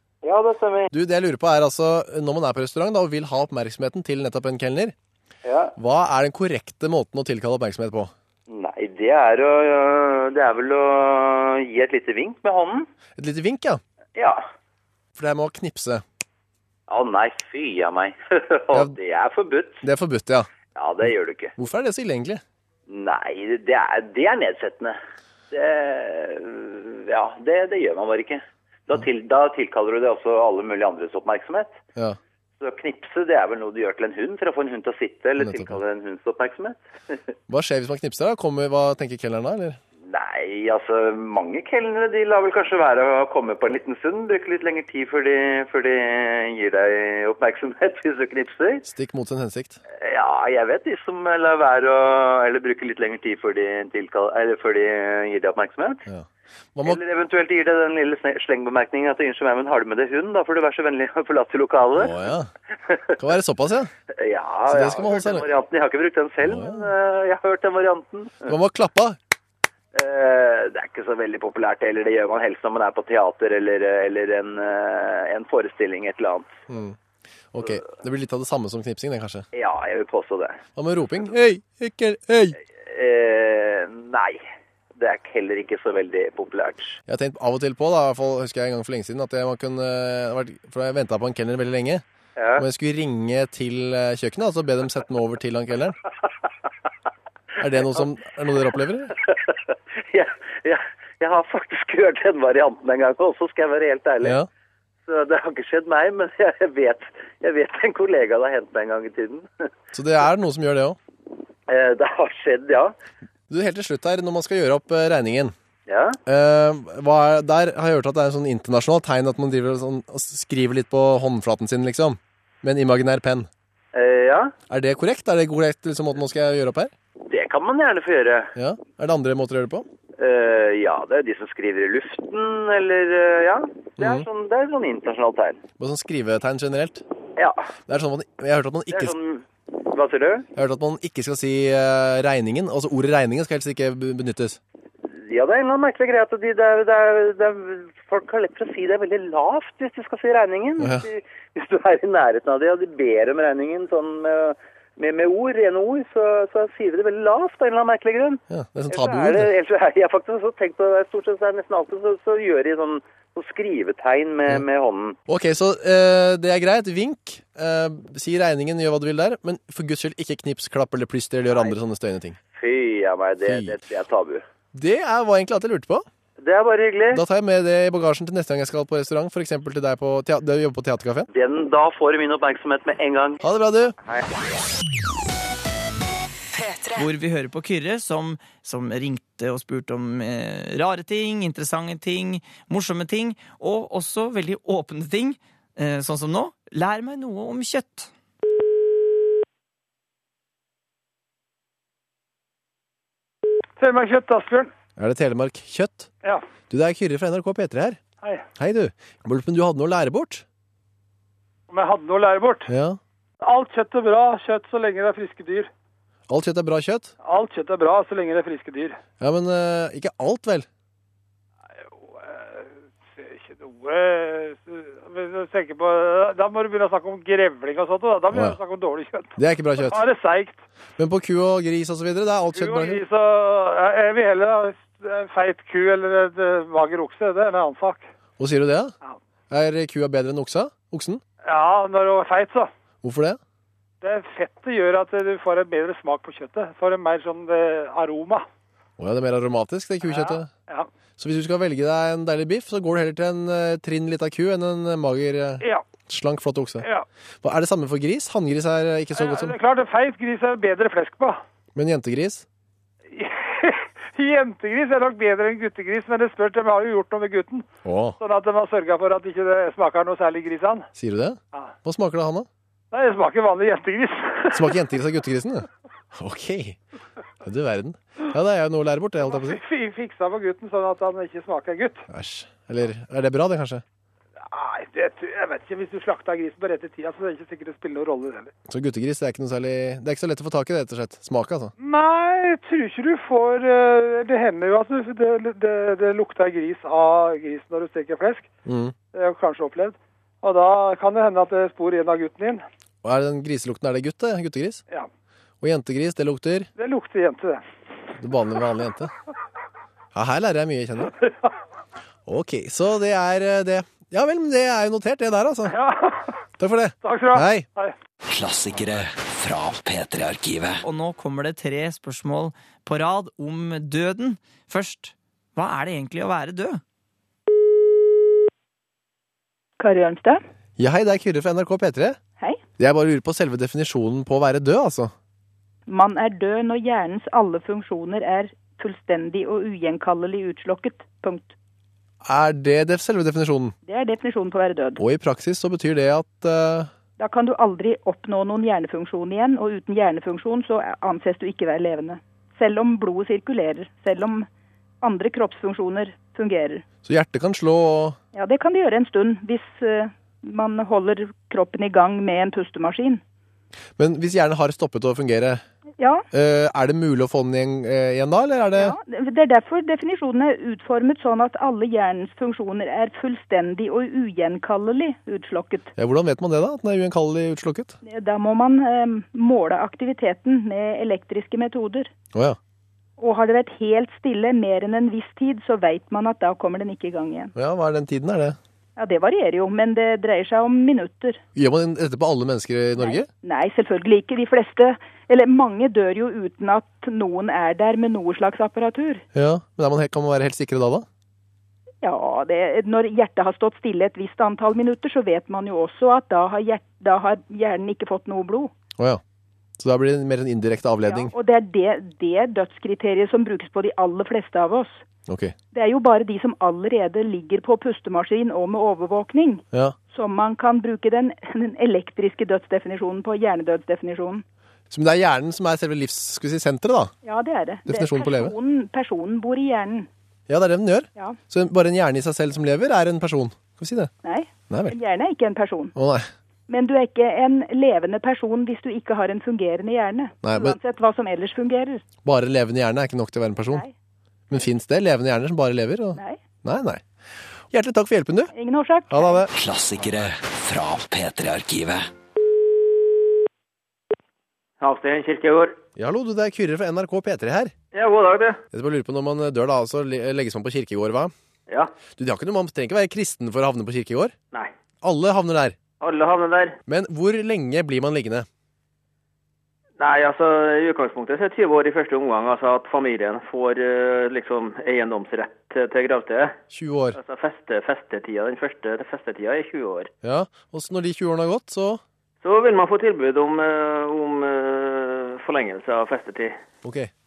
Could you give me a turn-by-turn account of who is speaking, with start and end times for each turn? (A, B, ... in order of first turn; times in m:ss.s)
0:00.2-0:00.9 A
0:00.9-0:04.9 B
0:05.4-0:05.7 A
0:05.8-0:08.1 B
0:08.5-0:12.9 A
0:13.2-0:13.8 B
0:14.2-0:14.4 A
0:15.2-0:16.0 B
0:16.9-0:19.8 A
0:19.8-0:20.5 B
0:20.8-0:21.5 A
0:21.6-0:22.4 B
0:22.9-0:25.0 A
0:25.5-0:31.8 A
0:32.6-0:37.2 A
0:35.4-0:35.8 B
0:37.5-0:39.8 B
0:40.1-0:48.8 A
0:48.8-0:49.8 B
0:50.0-0:56.0 A
0:56.1-0:57.0 B
0:56.8-1:02.2 A
1:02.0-1:02.5 B
1:02.9-1:03.2 A
1:03.2-1:03.9 B
1:04.2-1:08.6 A
1:04.7-1:05.5 B
1:06.4-1:06.9 B
1:08.5-1:09.2 B
1:09.9-1:16.6 A
1:16.7-1:17.0 B
1:17.5-1:19.5 B
1:19.5-1:20.6 A
1:20.8-1:22.6 B
1:22.8-1:24.4 A
1:25.0-1:27.0 A
1:27.1-1:32.0 B
1:32.4-1:32.6 A
1:32.6-1:36.0 B
1:37.6-1:39.1 B
1:39.3-1:39.5 A
1:40.1-1:44.4 A
1:44.2-1:44.5 B
1:45.1-1:49.5 A
1:49.9-1:51.0 B
1:51.7-1:53.0 A
1:53.5-1:55.5 B
1:55.9-1:56.2 A
1:56.3-2:03.5 B
2:03.9-2:04.5 A
2:04.7-2:06.9 B
2:07.3-2:08.5 A
2:08.6-2:09.9 B
2:10.2-2:15.6 A
2:14.0-2:14.3 B
2:15.8-2:17.0 B
2:17.4-2:17.7 A
2:17.9-2:19.2 B
2:18.9-2:20.5 A
2:20.6-2:24.6 B
2:25.0-2:45.2 A
2:30.8-2:31.1 B
2:38.5-2:39.5 B
2:45.3-2:52.4 B
2:51.5-2:51.8 A
2:52.6-2:54.4 A
2:53.4-2:53.8 B
2:54.7-2:56.1 B
2:56.4-2:57.2 A
2:57.1-3:01.3 B
3:01.3-3:03.4 A
3:03.4-3:04.0 B
3:06.9-3:18.1 C
3:23.8-3:24.7 D
3:25.0-3:26.1 B
3:26.7-3:28.0 B
3:28.6-3:30.4 B
3:31.7-3:32.7 D
3:32.7-3:33.0 B
3:33.4-3:35.7 D
3:36.3-3:37.1 B
3:37.2-3:39.0 D
3:39.2-3:40.7 B
3:41.9-3:50.7 D
3:48.3-3:48.6 B
3:49.4-3:50.1 B
3:51.0-3:53.0 B
3:52.5-3:58.1 D
3:58.4-3:59.0 B
3:59.5-4:01.2 B
4:01.4-4:02.7 D
4:03.0-4:03.4 B
4:04.0-4:08.5 D
4:09.0-4:10.5 B
4:10.0-4:10.9 D
4:11.2-4:16.9 B
4:17.4-4:19.6 B
4:19.2-4:21.4 D
4:21.8-4:22.4 B
4:23.1-4:27.7 D
4:27.8-4:28.2 B
4:28.2-4:30.9 D
4:31.0-4:32.5 B
4:32.9-4:34.8 D
4:34.5-4:36.8 B
4:37.4-4:39.6 B
4:39.2-4:42.0 D
4:42.1-4:43.8 B
4:44.4-4:48.5 D
4:48.7-4:51.7 B
4:51.8-4:58.5 D
4:58.6-4:59.0 B
4:59.1-5:02.6 D
5:03.0-5:04.8 B
5:05.6-5:06.7 B
5:06.8-5:07.6 D
5:08.2-5:09.1 B
5:10.1-5:11.1 B
5:12.3-5:15.8 B
5:15.7-5:16.4 D
5:16.6-5:17.7 B
5:17.0-5:18.0 D
5:18.3-5:20.8 E
5:20.8-5:26.8 C
5:29.8-5:30.4 F
5:30.8-5:32.2 B
5:32.8-5:35.1 B
5:35.9-5:41.6 F
5:42.2-5:43.8 B
5:43.8-5:45.0 F
5:45.0-5:46.9 B
5:47.2-5:54.5 F
5:55.0-5:56.8 F
5:57.0-5:58.2 B
5:58.3-6:03.2 F
6:04.0-6:05.6 B
6:06.0-6:06.2 F
6:06.3-6:09.0 B
6:08.8-6:15.9 F
6:16.0-6:18.0 B
6:18.0-6:22.1 F
6:22.3-6:22.6 B
6:23.2-6:27.5 F
6:27.6-6:28.6 B
6:29.0-6:31.4 F
6:31.6-6:33.3 B
6:33.0-6:39.2 F
6:39.4-6:41.1 B
6:42.0-6:48.7 F
6:49.8-6:51.3 B
6:51.1-6:55.0 F
6:55.3-6:55.6 B
6:55.7-7:04.4 F
7:04.9-7:07.1 B
7:07.2-7:10.1 F
7:07.9-7:08.6 B
7:10.5-7:14.1 B
7:14.2-7:15.9 F
7:14.7-7:15.0 B
7:16.0-7:16.3 B
7:16.7-7:22.0 F
7:20.4-7:20.8 B
7:22.2-7:23.8 B
7:24.5-7:27.0 B
7:27.7-7:28.5 B
7:28.5-7:29.4 F
7:29.1-7:29.5 B
7:29.5-7:32.1 E
7:34.8-7:35.8 G
7:36.0-7:37.7 B
7:37.9-7:38.6 G
7:38.7-7:41.3 B
7:41.7-7:41.9 G
7:42.2-7:44.3 B
7:45.0-7:45.8 B
7:46.0-7:46.8 G
7:46.9-7:48.5 B
7:50.0-7:56.6 G
7:56.7-7:57.2 B
7:57.1-8:00.1 G
8:00.2-8:02.0 B
8:02.4-8:06.6 G
8:06.8-8:07.1 B